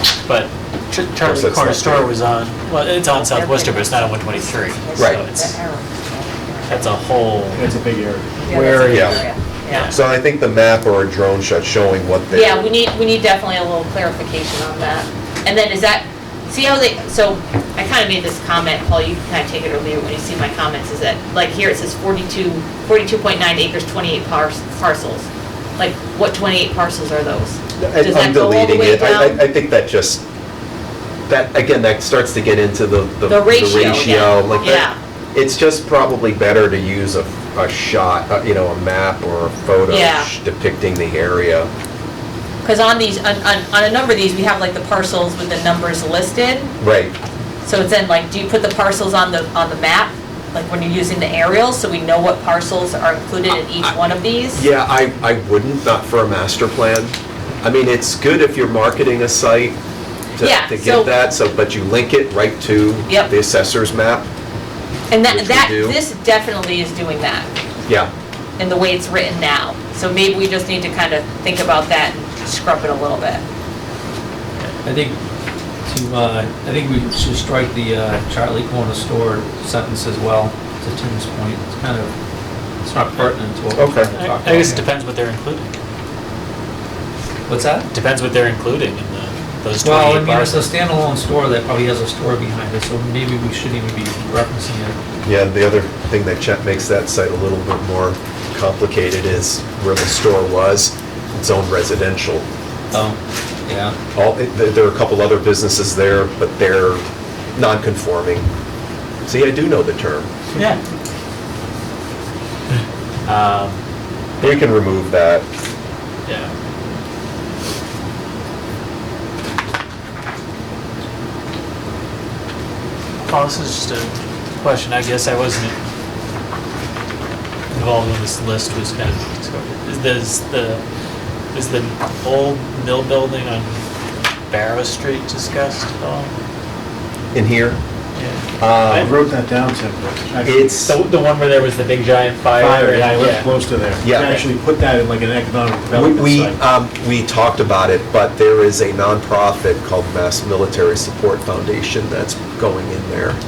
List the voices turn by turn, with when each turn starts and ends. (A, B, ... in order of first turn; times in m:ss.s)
0:00.3-0:05.6 A
0:01.2-0:02.1 B
0:03.2-0:07.0 C
0:06.7-0:07.7 A
0:07.6-0:09.0 D
0:08.4-0:09.9 C
0:08.5-0:10.0 A
0:08.9-0:09.3 B
0:09.9-0:12.7 B
0:12.3-0:25.3 C
0:25.8-0:29.4 C
0:27.8-0:30.2 B
0:31.3-0:41.7 B
0:33.3-0:35.0 C
0:39.9-0:40.3 C
0:42.6-0:46.7 C
0:46.8-0:47.2 B
0:47.6-0:54.6 C
0:54.6-0:59.8 B
1:00.4-1:04.3 B
1:00.4-1:01.1 C
1:05.1-1:07.5 C
1:05.3-1:06.0 B
1:08.6-1:13.4 C
1:14.8-1:15.2 E
1:15.9-1:22.1 E
1:22.8-1:24.8 E
1:23.8-1:24.1 B
1:24.2-1:25.7 A
1:27.5-1:27.9 E
1:27.9-1:30.7 A
1:29.8-1:35.0 E
1:35.2-1:42.5 B
1:42.9-1:44.0 E
1:44.2-1:47.0 B
1:47.6-1:48.5 B
1:49.3-1:50.3 B
1:50.6-1:50.8 A
1:53.3-1:53.8 A
1:54.4-1:55.4 B
1:56.3-1:56.5 A
2:03.2-2:05.8 A
2:07.7-2:10.8 A
2:11.5-2:13.8 A
2:14.5-2:16.3 A
2:17.3-2:17.8 B
2:18.2-2:18.9 A
2:18.6-2:19.1 B
2:18.9-2:20.8 D
2:20.4-2:21.0 B
2:20.8-2:23.5 A
2:22.6-2:26.6 D
2:24.0-2:24.4 B
2:25.9-2:33.4 B